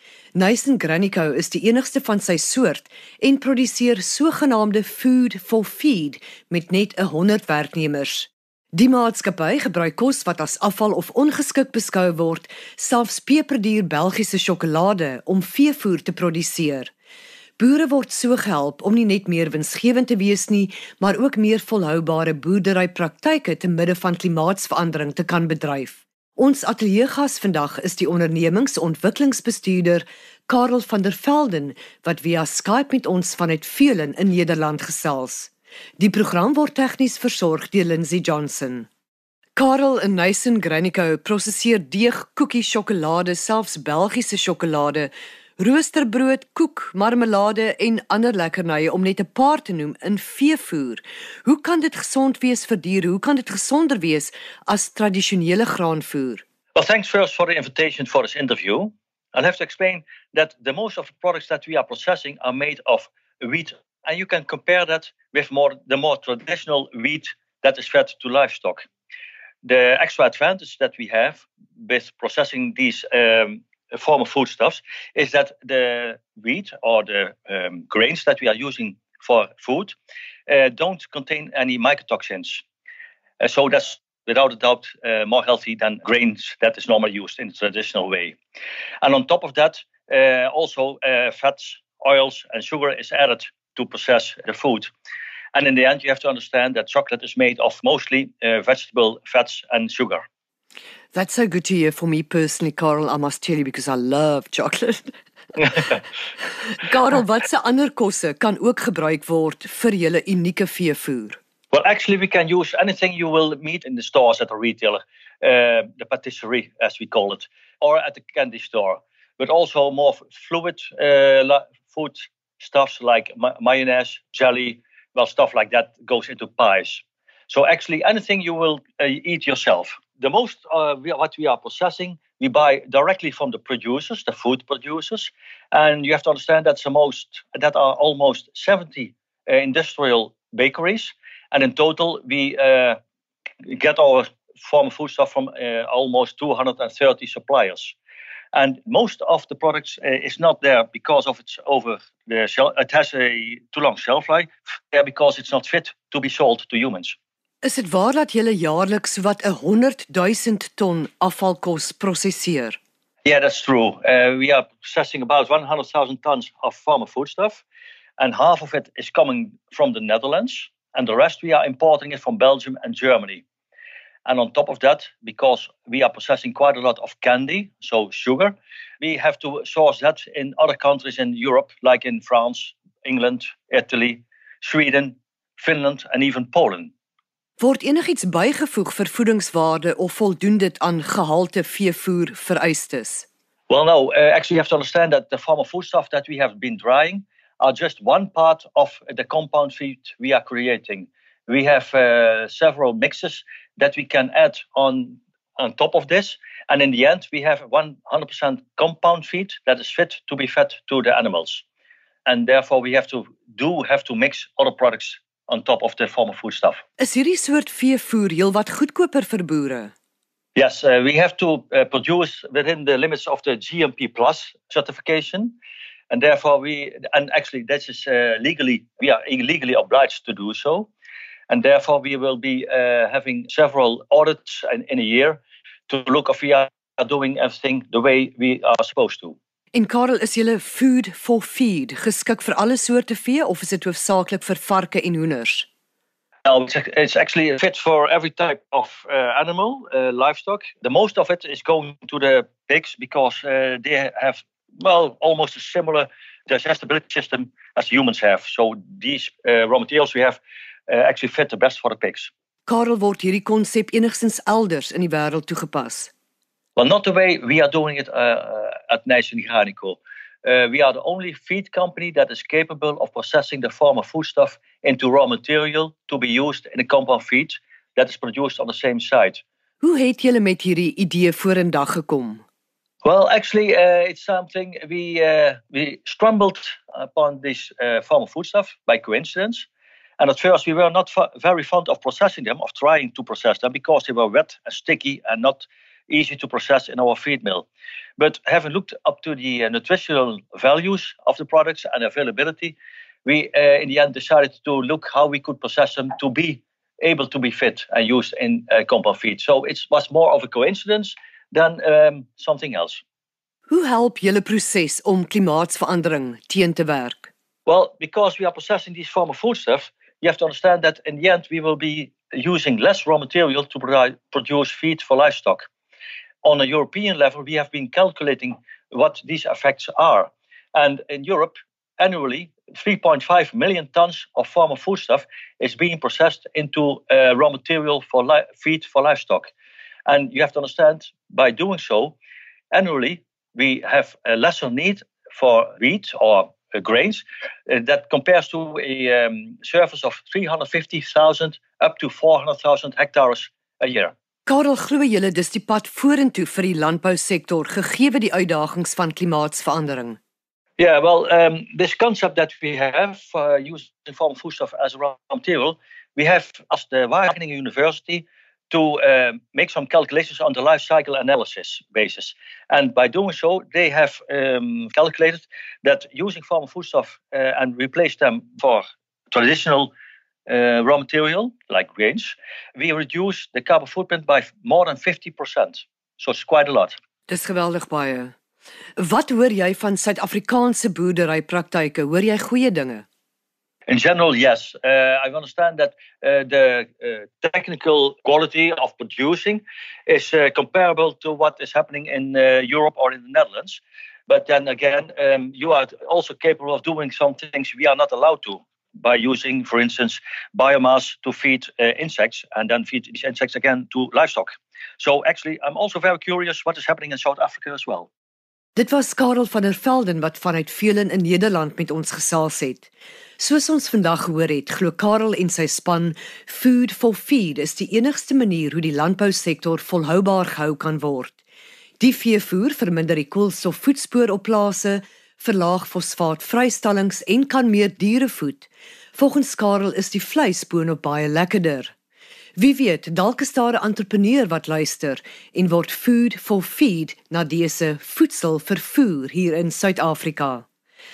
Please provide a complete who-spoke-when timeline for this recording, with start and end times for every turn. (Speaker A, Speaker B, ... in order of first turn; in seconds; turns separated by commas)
Speaker A: 0.3-16.9, Speaker A: 17.6-38.9, Speaker A: 39.5-56.4, Speaker B: 56.7-68.9, Speaker B: 69.6-80.0, Speaker B: 80.5-82.6, Speaker B: 83.4-88.4, Speaker B: 89.0-94.9, Speaker B: 95.5-100.2, Speaker A: 101.1-105.2, Speaker B: 105.6-105.9, Speaker A: 106.7-111.4, Speaker B: 111.7-143.0, Speaker B: 143.6-148.0, Speaker B: 148.5-157.2, Speaker A: 157.6-162.8, Speaker B: 163.2-167.6, Speaker B: 168.2-173.4, Speaker B: 174.2-186.9, Speaker A: 187.6-193.3, Speaker B: 193.7-211.6, Speaker B: 212.2-216.8, Speaker A: 217.0-219.9, Speaker B: 220.6-225.6, Speaker B: 226.1-230.9, Speaker B: 231.5-239.4, Speaker A: 239.7-245.7, Speaker B: 246.5-262.3, Speaker A: 262.7-266.1, Speaker B: 266.8-279.4, Speaker A: 279.8-282.4, Speaker B: 283.0-289.7, Speaker B: 290.2-313.0, Speaker A: 313.7-317.3, Speaker B: 317.6-325.7, Speaker B: 326.4-339.5, Speaker B: 340.1-342.2, Speaker B: 342.7-354.1, Speaker A: 354.4-360.2, Speaker B: 360.8-379.9, Speaker B: 380.5-387.0, Speaker A: 387.3-388.3, Speaker A: 389.0-393.1, Speaker B: 393.9-418.1, Speaker A: 418.8-431.4, Speaker A: 432.0-441.9, Speaker A: 442.6-450.6